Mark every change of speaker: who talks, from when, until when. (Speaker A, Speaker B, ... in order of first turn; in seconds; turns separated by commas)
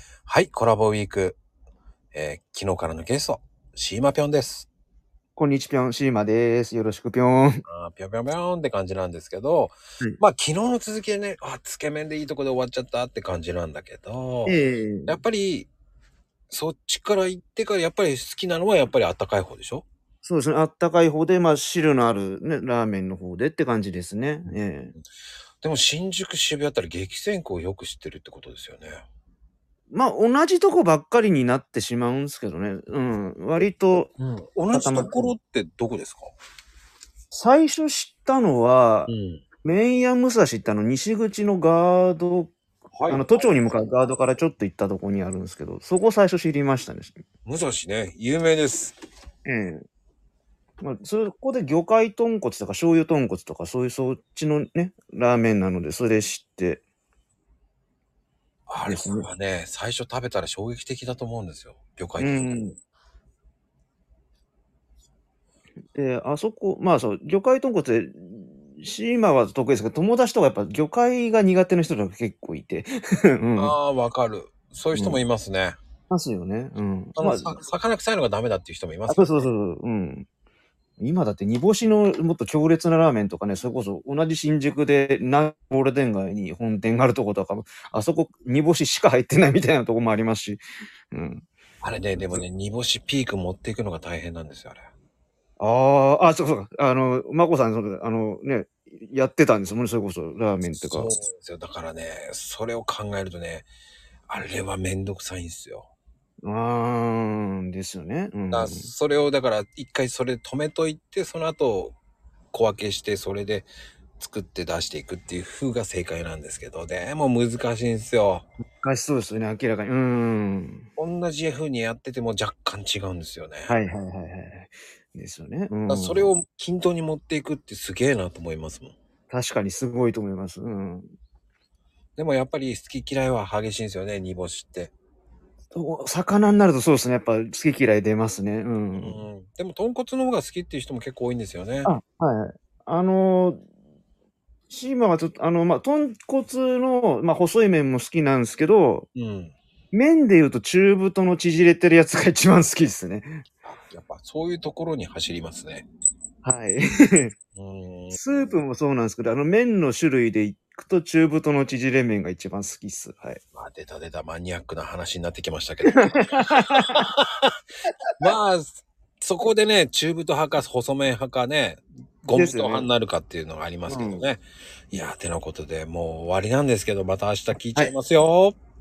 Speaker A: 0.2-1.4, Speaker A: 2.1-4.7, Speaker B: 5.3-7.6, Speaker A: 7.7-15.7, Speaker B: 14.4-15.2, Speaker A: 16.5-19.9, Speaker B: 20.2-24.9, Speaker A: 25.6-29.0, Speaker B: 29.9-34.1, Speaker A: 34.2-36.3, Speaker B: 34.7-35.3, Speaker B: 37.3-39.1, Speaker A: 39.1-39.4, Speaker B: 39.6-42.5, Speaker A: 42.9-43.5, Speaker B: 43.1-47.2, Speaker A: 47.4-49.0, Speaker B: 49.5-49.8, Speaker B: 50.8-56.8, Speaker A: 58.7-62.6, Speaker B: 58.9-59.3, Speaker B: 62.2-62.8, Speaker B: 65.9-73.7, Speaker A: 73.6-75.8, Speaker B: 74.9-75.2, Speaker B: 76.1-77.6, Speaker A: 77.2-79.4, Speaker B: 79.1-80.3, Speaker B: 81.0-91.4, Speaker A: 91.8-94.9, Speaker B: 92.2-92.4, Speaker B: 95.6-101.1, Speaker A: 100.7-103.7, Speaker A: 104.3-105.9, Speaker B: 106.4-108.9, Speaker A: 108.5-112.0, Speaker A: 112.5-118.5, Speaker B: 118.8-120.9, Speaker A: 121.0-123.8, Speaker B: 123.7-126.3, Speaker A: 125.9-128.9, Speaker B: 129.3-131.1, Speaker A: 132.2-134.9, Speaker B: 135.7-139.2, Speaker A: 139.0-141.9, Speaker B: 141.8-143.6, Speaker B: 144.7-149.1, Speaker A: 149.1-149.5, Speaker B: 149.9-153.4, Speaker A: 153.6-155.8, Speaker B: 156.4-157.3, Speaker A: 157.6-158.2, Speaker B: 158.1-163.4, Speaker A: 163.5-167.6, Speaker B: 165.9-167.1, Speaker A: 168.2-178.6, Speaker B: 172.3-172.9, Speaker B: 173.9-174.3